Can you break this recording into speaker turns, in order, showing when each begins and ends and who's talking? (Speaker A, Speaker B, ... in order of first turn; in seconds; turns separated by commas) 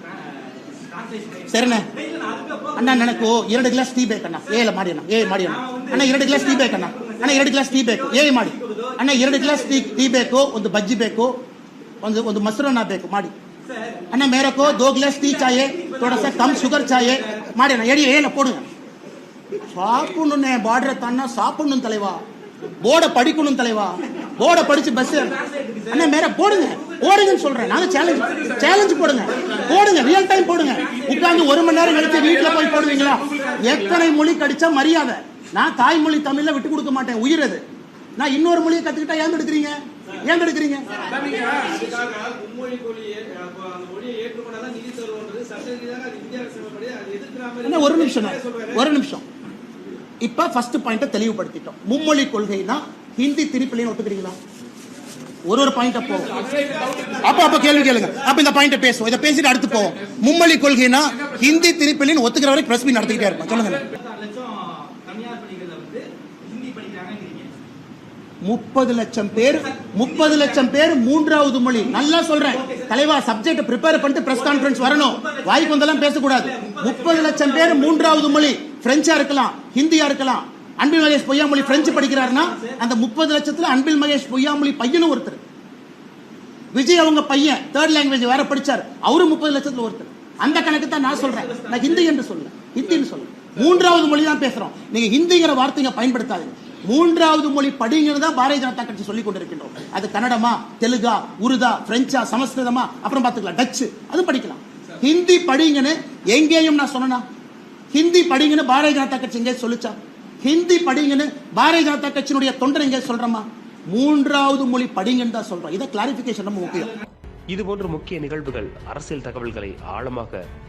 Speaker A: 0.6-3.3, Speaker B: 1.5-1.9, Speaker B: 2.8-11.4, Speaker A: 5.2-10.1, Speaker B: 12.0-13.3, Speaker A: 13.7-14.1, Speaker B: 14.1-18.6, Speaker A: 14.8-17.5, Speaker B: 19.7-22.2, Speaker B: 22.8-25.4, Speaker A: 25.1-34.0, Speaker B: 25.9-37.6, Speaker B: 38.2-41.1, Speaker A: 41.0-48.9, Speaker B: 47.6-49.2, Speaker B: 50.2-54.4, Speaker B: 55.5-56.5, Speaker A: 56.4-58.1, Speaker B: 57.2-63.9, Speaker A: 63.2-67.5, Speaker B: 68.4-85.4, Speaker A: 69.4-70.6, Speaker A: 72.5-72.9, Speaker A: 74.0-78.5, Speaker A: 81.6-82.8, Speaker B: 86.7-107.2, Speaker A: 90.5-92.1, Speaker B: 107.9-117.0, Speaker C: 117.5-120.4